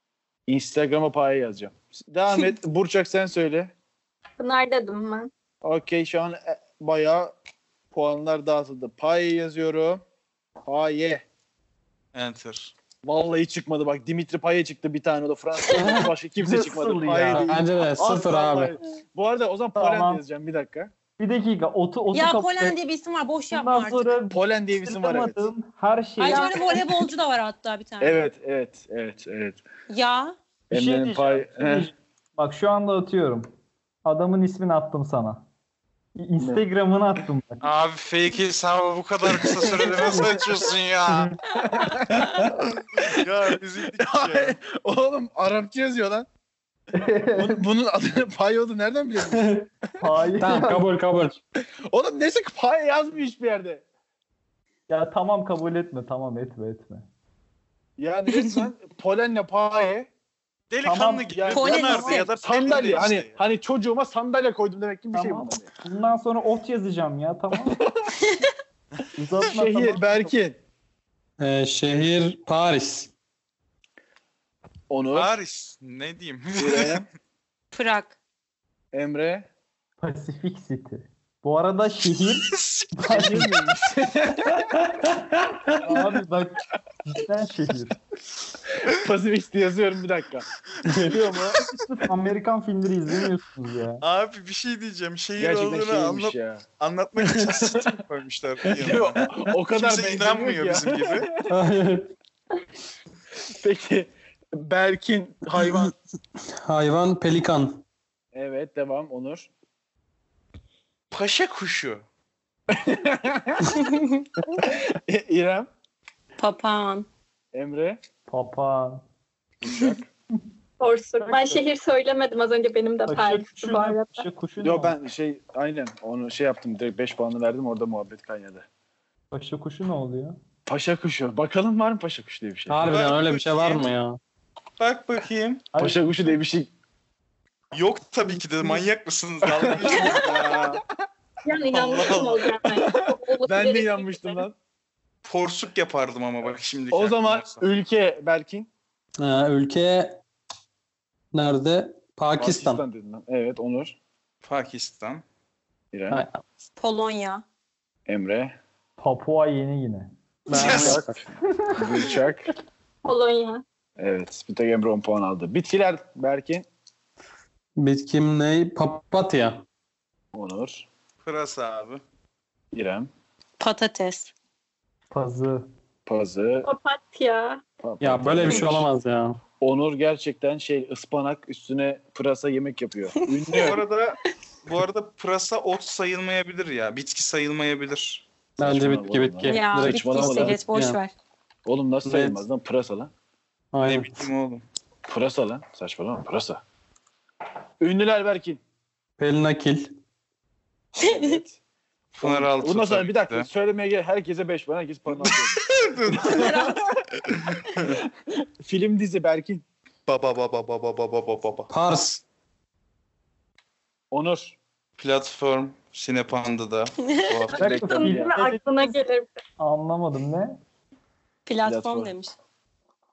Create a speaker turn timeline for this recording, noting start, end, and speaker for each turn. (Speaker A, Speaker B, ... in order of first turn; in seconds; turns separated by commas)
Speaker A: 0.5-3.7, Speaker B: 4.4-5.3, Speaker A: 5.6-7.3, Speaker A: 7.9-10.0, Speaker A: 10.7-11.2, Speaker C: 12.1-12.7, Speaker A: 13.0-20.9, Speaker D: 15.7-16.0, Speaker E: 16.4-17.6, Speaker F: 17.4-18.8, Speaker E: 19.8-20.2, Speaker E: 21.2-22.8, Speaker D: 22.1-24.1, Speaker E: 23.5-26.5, Speaker A: 24.3-25.5, Speaker D: 26.2-28.2, Speaker B: 26.2-26.8, Speaker A: 28.0-29.6, Speaker D: 29.9-30.4, Speaker A: 30.7-31.9, Speaker E: 30.7-33.5, Speaker E: 34.0-35.5, Speaker E: 36.2-37.7, Speaker C: 37.6-41.4, Speaker A: 39.3-40.4, Speaker A: 41.7-43.2, Speaker C: 42.4-44.6, Speaker A: 43.9-46.3, Speaker E: 46.9-47.7, Speaker A: 47.4-49.6, Speaker F: 49.3-49.7, Speaker E: 50.0-50.9, Speaker F: 50.3-51.4, Speaker A: 51.9-53.8, Speaker E: 54.9-57.1, Speaker A: 58.0-60.1, Speaker C: 60.7-63.4, Speaker E: 60.8-61.2, Speaker A: 61.0-65.7, Speaker D: 61.5-62.3, Speaker E: 65.1-67.8, Speaker A: 67.8-68.1, Speaker D: 68.2-68.5, Speaker E: 69.2-70.3, Speaker A: 69.5-70.6, Speaker F: 71.4-73.1, Speaker A: 74.9-75.3, Speaker C: 75.1-77.0, Speaker A: 76.5-77.1, Speaker D: 77.7-78.2, Speaker A: 78.9-79.5, Speaker E: 80.0-83.7, Speaker C: 82.4-83.4, Speaker A: 83.1-85.2, Speaker E: 85.8-88.0, Speaker A: 88.8-90.5, Speaker F: 90.9-91.2, Speaker A: 91.0-91.6, Speaker E: 91.6-94.0, Speaker C: 94.0-101.3, Speaker A: 95.4-96.7, Speaker A: 97.5-98.0, Speaker A: 98.7-101.5, Speaker F: 101.5-102.1, Speaker A: 103.4-105.9, Speaker F: 106.6-107.8, Speaker A: 108.3-109.5, Speaker C: 111.1-112.0, Speaker A: 112.7-114.0, Speaker D: 113.8-114.3, Speaker A: 114.5-115.7, Speaker D: 116.4-117.1, Speaker A: 117.5-118.0, Speaker E: 118.3-119.0, Speaker A: 119.6-120.1, Speaker B: 120.8-124.2, Speaker E: 121.2-121.6, Speaker E: 123.1-125.0, Speaker A: 124.6-128.7, Speaker E: 129.3-130.4, Speaker A: 130.7-133.0, Speaker F: 132.7-134.2, Speaker C: 132.8-133.9, Speaker C: 134.8-135.7, Speaker E: 135.7-136.3, Speaker A: 135.8-136.7, Speaker C: 137.7-140.8, Speaker A: 139.4-140.8, Speaker B: 141.4-144.4, Speaker C: 141.7-142.6, Speaker A: 142.8-144.6, Speaker C: 145.2-147.6, Speaker A: 146.9-148.7, Speaker F: 149.2-150.2, Speaker F: 151.3-152.8, Speaker A: 152.4-154.0, Speaker C: 154.4-155.2, Speaker A: 155.9-156.2, Speaker F: 156.1-156.4, Speaker D: 156.8-157.4, Speaker A: 158.1-158.6, Speaker E: 159.0-160.1, Speaker F: 160.5-161.2, Speaker A: 160.5-162.5, Speaker C: 160.5-161.0, Speaker E: 161.6-162.1, Speaker B: 163.1-163.6, Speaker A: 164.0-166.7, Speaker F: 167.8-169.6, Speaker A: 170.3-170.9, Speaker C: 171.2-172.0, Speaker A: 172.7-173.1, Speaker D: 173.6-174.3, Speaker E: 175.1-175.7, Speaker A: 176.1-176.7, Speaker B: 176.7-177.6, Speaker A: 177.8-178.9, Speaker F: 178.0-179.4, Speaker A: 179.6-183.8, Speaker D: 183.2-183.8, Speaker C: 183.6-188.2, Speaker F: 188.6-191.0, Speaker A: 188.6-190.6, Speaker D: 189.4-191.1, Speaker A: 191.7-193.1, Speaker F: 192.1-192.4, Speaker F: 193.7-194.3, Speaker C: 193.8-194.7, Speaker A: 195.1-196.6, Speaker A: 197.8-198.6, Speaker F: 199.2-199.9, Speaker D: 201.0-201.4, Speaker A: 201.0-201.6, Speaker C: 202.2-203.5, Speaker A: 202.2-207.0, Speaker C: 205.2-206.7, Speaker D: 206.1-206.8, Speaker C: 207.3-208.0, Speaker A: 207.9-209.7, Speaker C: 210.1-211.7, Speaker F: 211.7-212.2, Speaker A: 214.1-214.6, Speaker C: 215.0-217.8, Speaker D: 217.1-217.4, Speaker A: 217.5-218.4, Speaker E: 217.6-218.9, Speaker B: 217.6-219.3, Speaker E: 219.6-220.6, Speaker D: 221.5-222.3, Speaker A: 221.7-222.1